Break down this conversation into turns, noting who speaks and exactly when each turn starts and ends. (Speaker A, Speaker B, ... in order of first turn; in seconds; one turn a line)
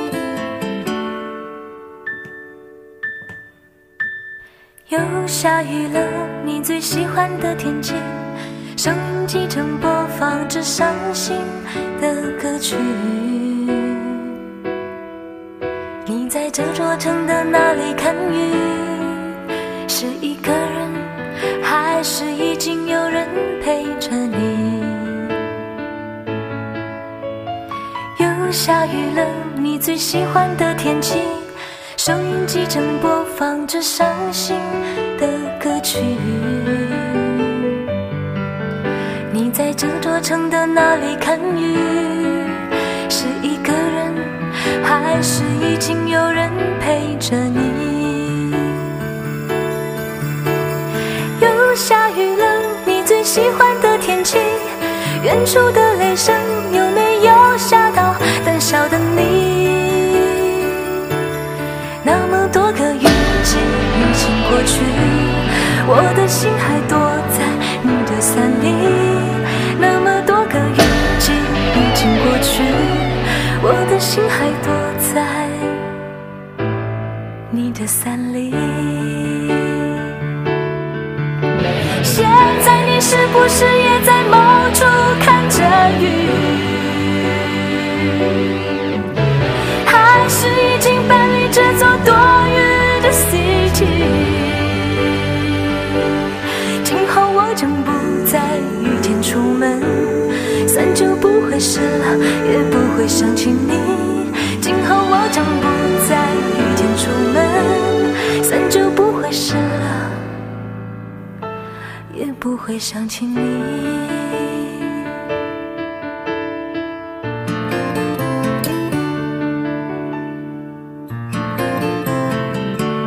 Speaker A: 4.9-14.4
Speaker A: 16.1-25.4
Speaker A: 28.2-37.8
Speaker A: 39.3-48.9
Speaker A: 51.4-61.2
Speaker A: 62.0-75.9
Speaker A: 77.5-80.1
Speaker A: 81.8-88.2
Speaker A: 89.8-94.9
Speaker A: 96.8-110.2
Speaker A: 112.1-115.1